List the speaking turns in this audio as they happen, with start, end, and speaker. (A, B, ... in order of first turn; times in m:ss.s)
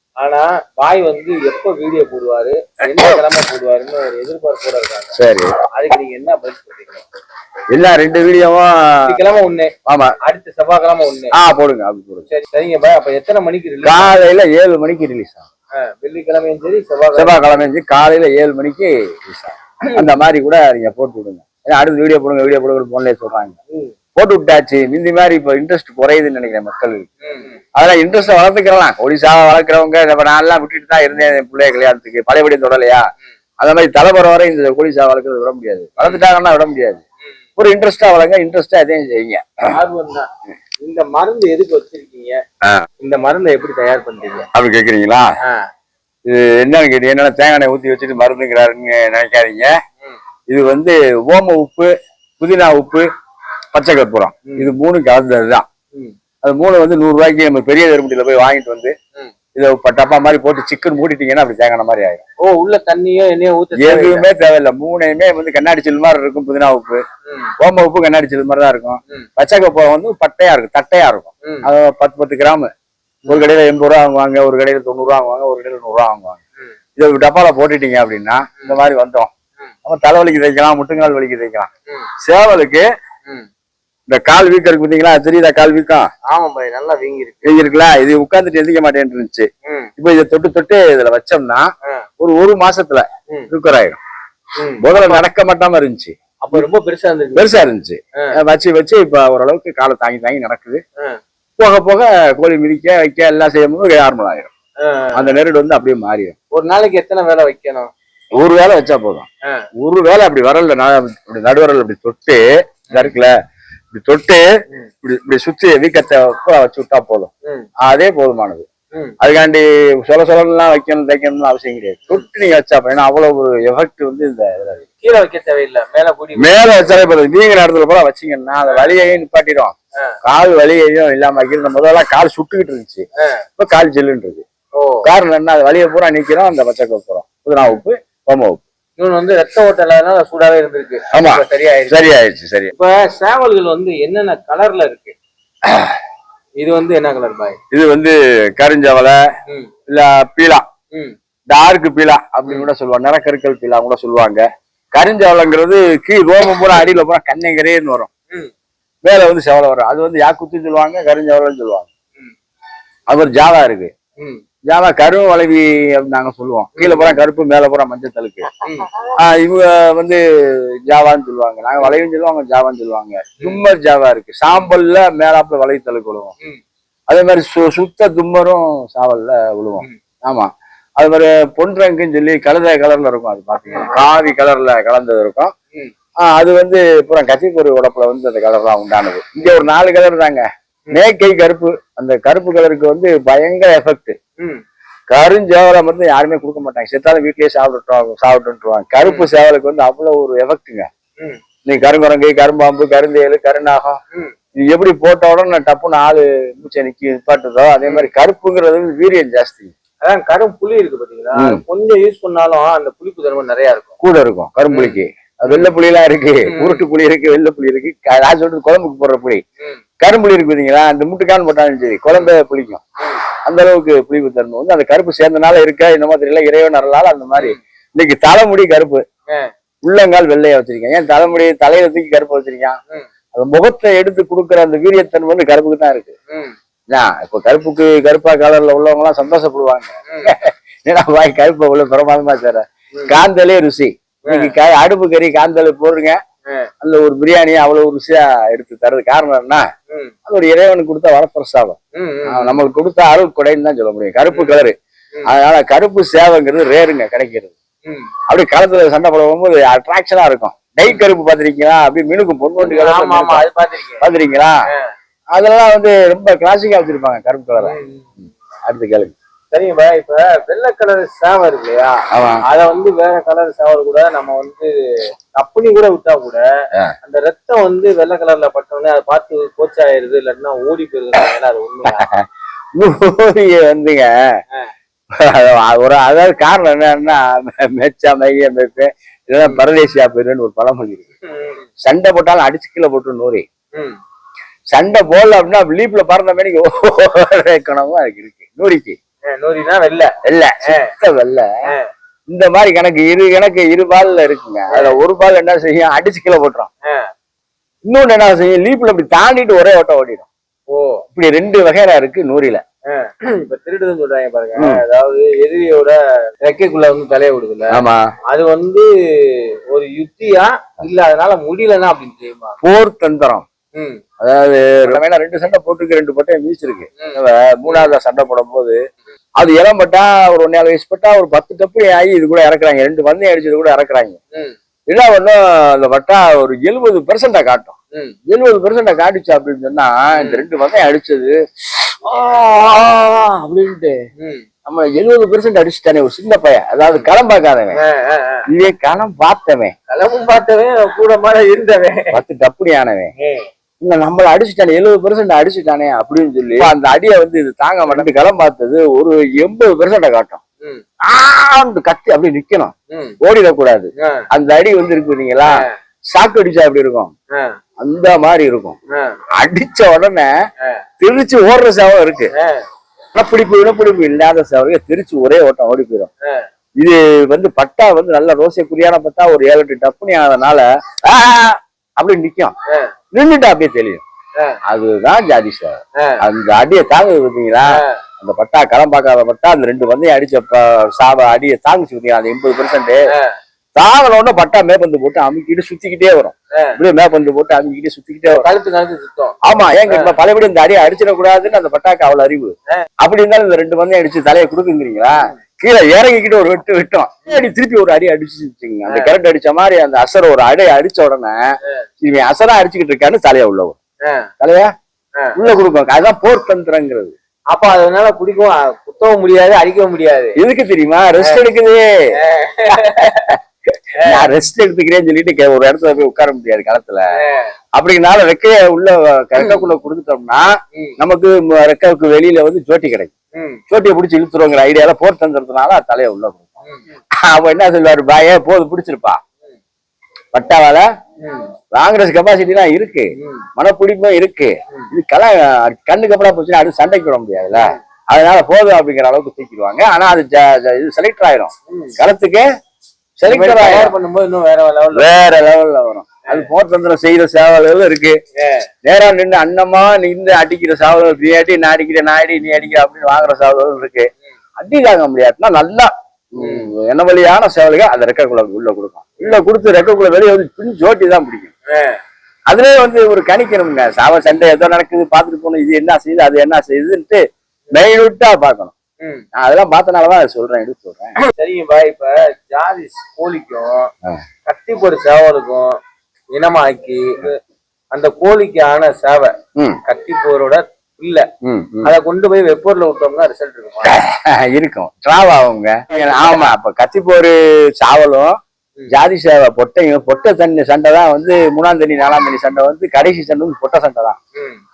0:00.2-0:05.1 A
0:05.2-0:05.5 B
0:05.8-0:07.0 A
0:07.7-0:09.2 B
0:09.1-0:09.7 A
0:09.9-0:10.2 B
0:10.2-0:11.4 A
0:11.3-0:12.3 B
0:12.3-0:14.3 A
0:13.8-0:15.4 B
0:15.8-0:17.6 A
0:17.1-0:23.6 B
0:24.2-0:27.1 B
0:27.2-0:27.6 A
0:27.8-0:33.1 B
0:33.6-0:37.0 B
0:37.6-0:39.4 B
0:39.7-0:40.3 A
0:40.8-0:42.4 A
0:43.0-0:44.5 A
0:44.5-0:45.3 B
0:46.3-0:49.7 B
0:50.5-0:53.1 B
0:53.7-0:55.6 B
0:56.4-0:58.9 B
0:59.6-1:02.2 B
1:02.4-1:04.2 A
1:03.8-1:07.0 B
1:07.3-1:07.5 A
1:07.6-1:12.7 B
1:13.3-1:13.5 A
1:13.3-1:16.4 B
1:17.0-1:19.3 B
1:19.8-1:21.7 B
1:22.2-1:22.9 B
1:24.1-1:26.1 B
1:26.3-1:27.6 A
1:27.4-1:31.7 B
1:29.7-1:29.9 A
1:32.2-1:34.0 B
1:34.6-1:35.2 A
1:34.8-1:36.7 B
1:36.4-1:37.6 A
1:37.4-1:40.8 B
1:41.6-1:44.5 B
1:44.8-1:45.4 A
1:45.1-1:46.4 B
1:46.5-1:47.9 A
1:48.4-1:49.3 B
1:49.8-1:53.3 B
1:52.9-1:53.2 A
1:53.9-1:54.4 B
1:55.0-1:57.3 B
1:57.8-1:58.7 B
1:59.2-2:04.8 B
2:04.8-2:06.9 A
2:06.4-2:13.1 B
2:13.6-2:14.4 B
2:14.8-2:15.0 A
2:15.0-2:18.6 B
2:19.0-2:22.1 A
2:21.1-2:22.7 B
2:22.7-2:25.2 A
2:25.7-2:26.0 B
2:26.6-2:27.6 A
2:27.7-2:29.2 B
2:29.9-2:30.6 B
2:31.5-2:38.1 B
2:39.0-2:41.9 B
2:43.1-2:43.9 B
2:44.7-2:48.5 B
2:46.8-2:47.2 A
2:48.6-2:48.9 A
2:49.0-2:56.3 B
2:57.1-3:05.5 B
3:03.7-3:03.9 A
3:06.2-3:14.2 B
3:15.1-3:20.9 B
3:19.0-3:19.3 A
3:21.7-3:24.0 B
3:24.6-3:29.7 B
3:30.0-3:34.0 A
3:31.4-3:31.6 B
3:34.0-3:39.4 B
3:34.7-3:35.7 A
3:36.5-3:36.8 A
3:40.0-3:42.8 B
3:43.5-3:49.0 B
3:49.8-3:52.8 B
3:53.3-3:56.1 B
3:56.9-4:06.2 B
4:04.2-4:04.6 A
4:06.8-4:09.6 B
4:10.3-4:14.8 B
4:12.0-4:12.6 A
4:14.3-4:14.6 A
4:15.3-4:17.5 B
4:18.3-4:23.5 B
4:22.6-4:24.0 A
4:24.0-4:24.6 B
4:25.3-4:27.8 B
4:27.6-4:28.3 A
4:28.7-4:29.2 B
4:29.5-4:34.8 A
4:32.1-4:32.4 B
4:35.4-4:36.4 A
4:37.0-4:42.1 A
4:41.9-4:42.2 B
4:42.8-4:44.1 B
4:45.1-4:51.1 B
4:51.2-4:51.7 A
4:51.8-4:53.5 B
4:54.7-4:59.0 B
4:59.3-5:00.1 A
5:00.2-5:01.5 B
5:00.6-5:00.9 A
5:02.3-5:06.7 B
5:04.7-5:05.0 A
5:07.9-5:10.3 B
5:10.7-5:11.0 A
5:11.2-5:12.6 B
5:12.9-5:22.6 A
5:17.7-5:18.0 B
5:22.6-5:23.4 B
5:23.8-5:24.0 A
5:24.2-5:28.8 B
5:27.0-5:27.9 A
5:29.4-5:34.2 B
5:34.9-5:37.8 B
5:38.3-5:44.0 B
5:40.2-5:40.4 A
5:44.2-5:44.5 A
5:44.7-5:47.8 B
5:47.8-5:48.5 A
5:48.5-5:49.7 B
5:49.9-5:52.2 A
5:52.1-5:53.1 B
5:53.2-5:53.5 A
5:53.8-6:00.4 B
6:01.0-6:07.1 B
6:02.9-6:03.2 A
6:04.0-6:04.3 A
6:07.8-6:08.8 B
6:09.4-6:10.3 B
6:11.0-6:12.3 B
6:12.4-6:12.6 A
6:13.2-6:16.1 B
6:16.8-6:22.5 B
6:23.1-6:24.0 B
6:24.7-6:33.0 B
6:33.8-6:38.5 B
6:38.3-6:39.4 A
6:39.4-6:51.4 B
6:39.9-6:40.1 A
6:48.9-6:49.2 A
6:52.0-6:53.8 B
6:54.4-6:54.7 B
6:55.4-6:57.2 B
6:57.5-7:00.4 A
7:00.4-7:01.9 B
7:02.2-7:03.4 A
7:02.7-7:07.1 B
7:04.0-7:04.3 A
7:07.2-7:07.5 A
7:07.8-7:10.5 B
7:09.4-7:09.7 A
7:11.0-7:13.1 B
7:13.4-7:13.6 A
7:13.7-7:16.5 B
7:16.6-7:16.9 A
7:17.2-7:19.2 B
7:20.3-7:20.9 B
7:21.2-7:21.5 A
7:21.7-7:32.5 B
7:23.2-7:23.5 A
7:31.7-7:32.0 A
7:33.2-7:33.9 B
7:33.3-7:35.1 A
7:34.9-7:38.2 B
7:38.4-7:38.7 A
7:38.8-7:51.5 B
7:46.4-7:46.7 A
7:51.7-7:52.0 A
7:52.5-7:57.2 B
7:57.7-7:58.7 B
7:59.3-8:01.2 B
8:01.2-8:03.9 A
8:04.5-8:05.7 A
8:06.4-8:07.4 A
8:07.9-8:09.4 A
8:09.9-8:11.3 A
8:11.4-8:11.9 B
8:11.8-8:14.0 A
8:13.9-8:18.4 B
8:15.9-8:16.5 A
8:18.9-8:24.2 B
8:24.4-8:24.6 A